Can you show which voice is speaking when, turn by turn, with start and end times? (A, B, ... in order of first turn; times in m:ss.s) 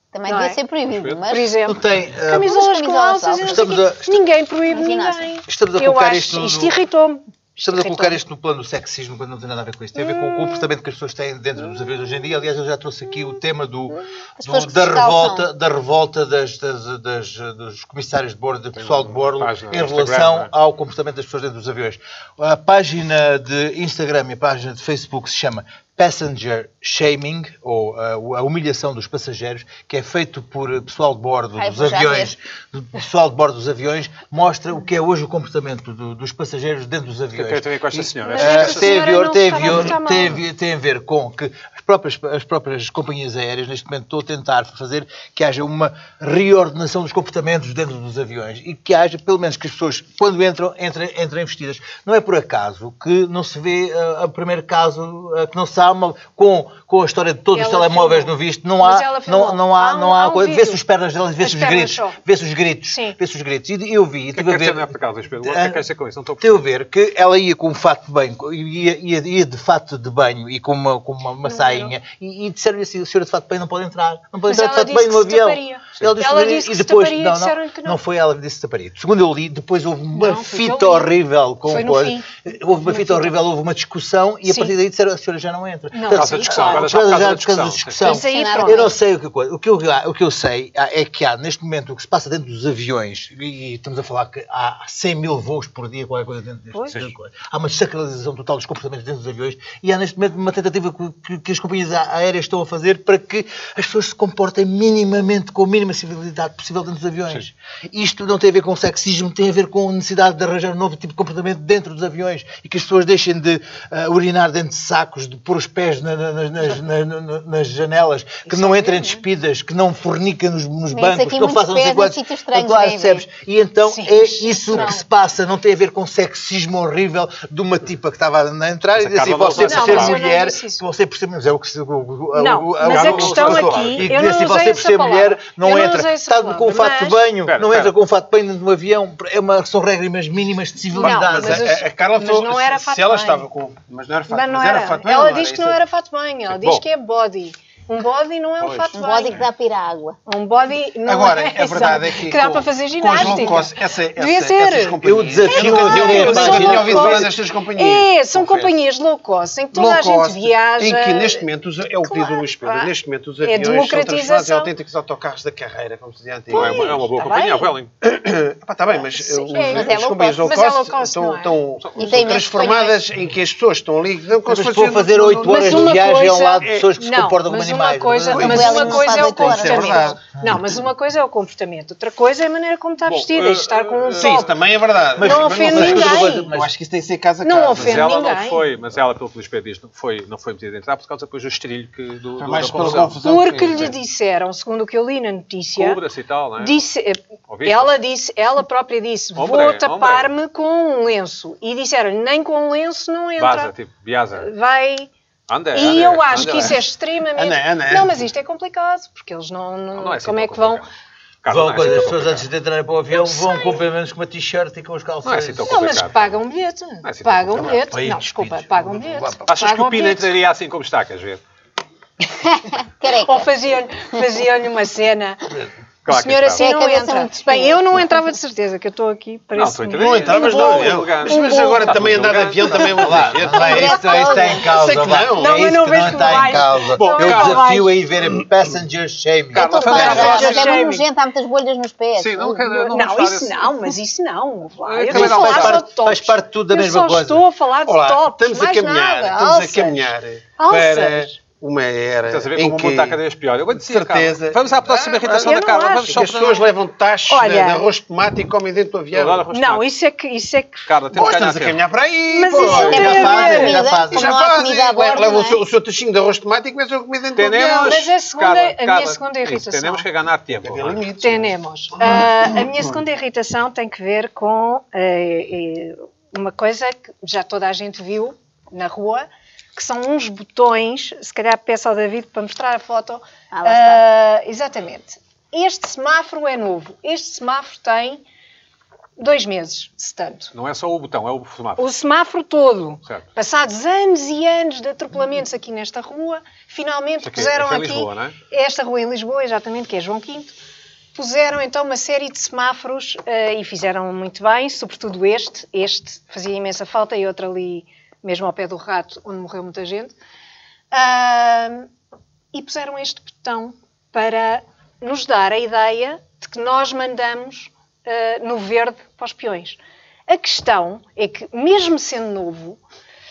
0:00.1-0:01.6 A
0:00.3-0:00.6 B
0:00.9-0:01.2 C
0:01.3-0:08.2 B
0:01.7-0:02.6 D
0:02.4-0:03.6 A
0:03.4-0:04.2 D
0:04.7-0:05.3 A
0:05.5-0:06.7 D
0:07.6-1:05.8 D
0:10.0-0:10.7 B
0:14.4-0:15.5 A
0:18.8-0:20.5 C
0:31.6-0:32.3 A
0:37.4-0:39.1 C
0:38.3-0:40.4 B
0:57.5-1:00.8 B
1:01.4-1:02.2 B
1:02.9-1:03.2 B
1:04.3-1:06.7 C
1:06.4-2:21.7 D
1:11.4-1:11.9 B
1:14.5-1:18.0 B
1:20.1-1:21.1 B
1:21.6-1:22.3 B
1:22.8-1:23.3 B
1:24.4-1:24.7 B
1:25.9-1:26.9 B
1:26.1-1:28.0 C
1:28.0-1:28.9 B
1:28.1-1:28.9 A
1:58.5-1:59.2 B
2:00.9-2:03.3 A
2:03.8-2:05.0 B
2:09.0-2:10.2 C
2:09.6-2:10.8 B
2:12.3-2:17.3 B
2:12.8-2:14.1 C
2:17.4-2:17.9 C
2:20.9-2:23.5 B
2:21.0-2:25.8 E
2:24.3-2:29.4 B
2:26.5-2:26.8 C
2:28.7-2:29.0 E
2:28.9-2:30.2 A
2:30.3-2:41.4 B
2:31.1-2:38.7 E
2:35.0-2:37.3 D
2:39.7-2:46.9 E
2:42.0-2:42.9 B
2:43.4-2:44.7 B
2:46.5-2:47.7 B
2:46.5-2:47.9 C
2:48.0-2:56.1 E
2:49.0-2:49.9 B
2:49.6-2:50.6 A
2:50.4-2:51.6 B
2:51.8-2:52.3 C
2:52.0-2:53.0 A
2:52.3-2:52.9 B
2:54.5-2:58.8 D
2:55.4-3:04.6 B
2:56.6-2:56.9 E
2:58.3-3:00.2 E
2:58.4-3:00.2 A
3:03.1-3:04.5 C
3:04.1-3:08.1 E
3:05.2-3:06.5 B
3:05.2-3:06.7 D
3:07.4-3:08.6 B
3:07.8-3:13.2 C
3:12.4-3:13.9 E
3:13.2-3:16.0 B
3:15.8-3:16.8 C
3:16.6-3:23.7 B
3:17.5-3:17.9 C
3:19.4-3:20.3 C
3:23.4-3:24.5 C
3:24.4-3:25.1 B
3:25.5-3:26.8 C
3:25.7-3:30.8 B
3:27.4-3:28.3 E
3:30.0-3:30.9 C
3:31.4-3:32.5 C
3:31.5-3:35.9 D
3:33.2-3:33.8 B
3:35.2-3:36.2 C
3:35.6-3:40.3 B
3:37.0-3:37.8 C
3:37.8-3:39.4 D
3:39.5-3:41.4 C
3:42.3-3:43.5 A
3:43.1-3:45.5 B
3:46.0-3:46.6 C
3:46.1-3:54.3 B
3:46.5-3:48.0 A
3:49.5-3:53.4 C
3:50.0-3:55.8 E
3:53.0-4:00.7 D
3:53.6-3:54.7 A
3:55.2-3:58.0 B
3:56.9-3:57.7 C
3:59.5-4:02.8 A
3:59.6-4:00.8 C
3:59.8-4:01.1 B
4:02.2-4:03.7 C
4:02.8-4:11.4 B
4:04.9-4:05.8 C
4:05.1-4:07.4 D
4:07.9-4:13.2 E
4:12.3-4:16.7 C
4:13.8-4:19.5 E
4:15.3-4:16.7 B
4:17.3-4:17.8 B
4:19.1-4:19.8 C
4:19.5-4:20.9 B
4:20.9-4:21.8 C
4:21.1-4:28.0 E
4:22.3-4:23.8 B
4:22.5-4:24.3 D
4:22.6-4:25.6 A
4:27.4-4:31.1 C
4:27.5-4:30.1 B
4:30.6-4:32.7 E
4:31.2-4:48.2 B
4:43.5-4:44.0 A
4:49.2-4:50.5 B
4:50.5-4:51.9 C
4:51.8-5:00.5 B
4:57.2-4:58.4 C
5:01.2-5:10.2 B
5:10.9-5:11.9 B
5:12.5-5:22.8 B